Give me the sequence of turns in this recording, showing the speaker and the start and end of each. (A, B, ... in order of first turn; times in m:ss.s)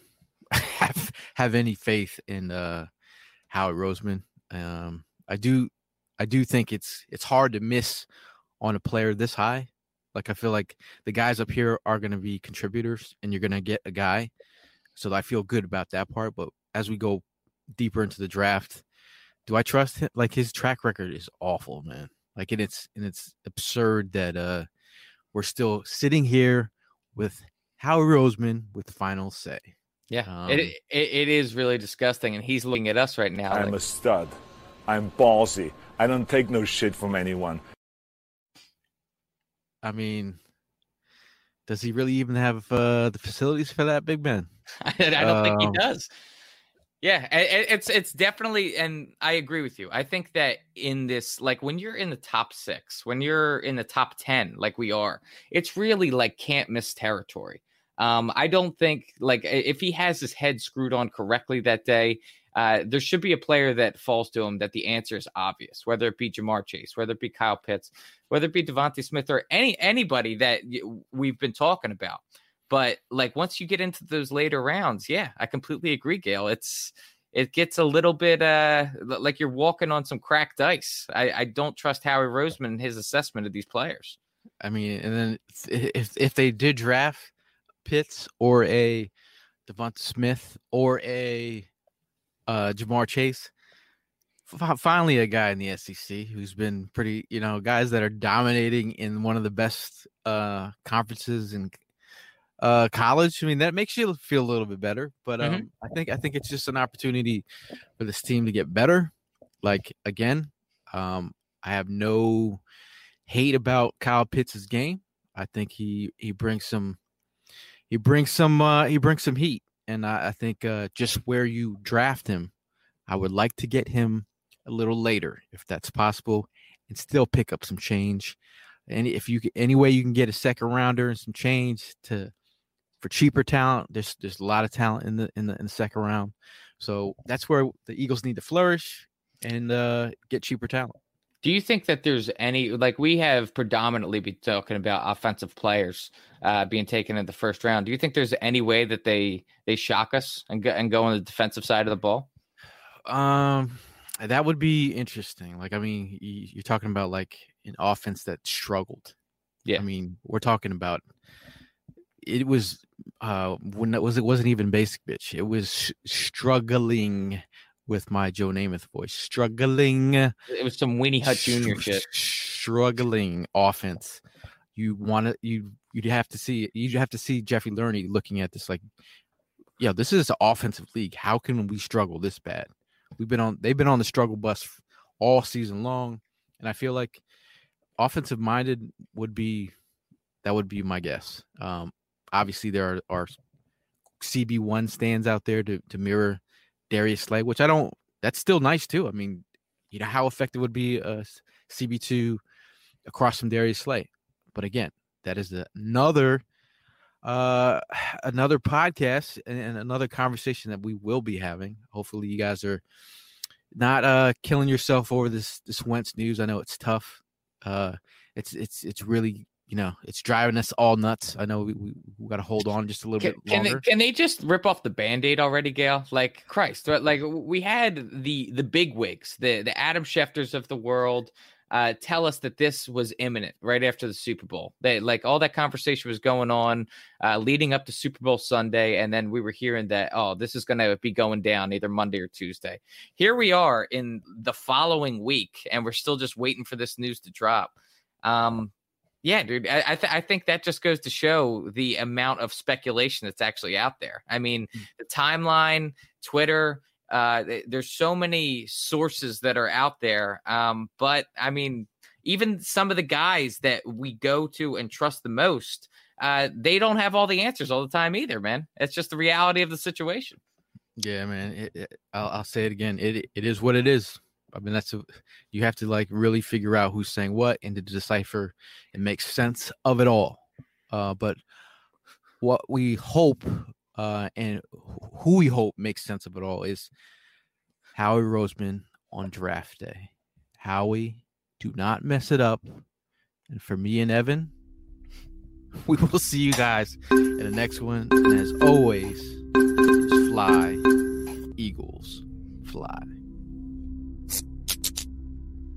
0:00.5-0:02.9 A
0:03.5-0:08.1 A
0:08.6-0:14.3 A
0:14.9-0:17.2 A
0:17.7-0:18.8 A
0:19.4-0:24.7 A
0:25.3-0:29.7 A
0:30.1-0:33.8 B
0:30.2-0:30.7 A
0:33.5-0:34.3 C
0:34.9-0:37.6 C
0:39.8-0:40.4 A
0:41.7-0:44.5 A
0:44.8-0:46.1 B
0:45.2-0:45.8 A
0:47.0-1:24.2 B
1:24.6-1:27.3 A
1:27.8-1:29.1 A
1:29.6-1:31.7 A
1:32.5-1:33.5 A
1:34.5-1:41.8 A
1:42.6-1:47.4 A
1:45.4-1:45.7 B
1:48.0-1:52.6 A
1:53.2-1:57.0 A
1:57.9-2:02.5 A
2:03.1-2:08.4 A
2:08.9-2:12.3 A
2:13.0-2:21.0 A
2:21.4-2:32.3 B
2:33.1-2:39.1 A
2:39.8-2:41.0 A
2:42.2-2:50.3 A
2:50.5-2:52.0 B
2:51.2-2:54.2 A
2:54.8-2:58.8 A
2:59.8-3:07.2 A
3:08.0-3:09.7 A
3:10.4-3:13.4 A
3:14.2-3:22.4 A
3:23.0-3:26.4 A
3:27.2-3:32.8 A
3:33.7-3:43.8 A
3:43.2-4:08.7 B
4:09.2-4:30.4 B
4:31.0-4:41.4 A
4:42.4-4:46.9 A
4:47.9-4:52.8 A
4:53.5-4:54.5 A
4:55.7-4:59.4 A
5:00.0-5:00.8 A
5:01.5-5:03.1 A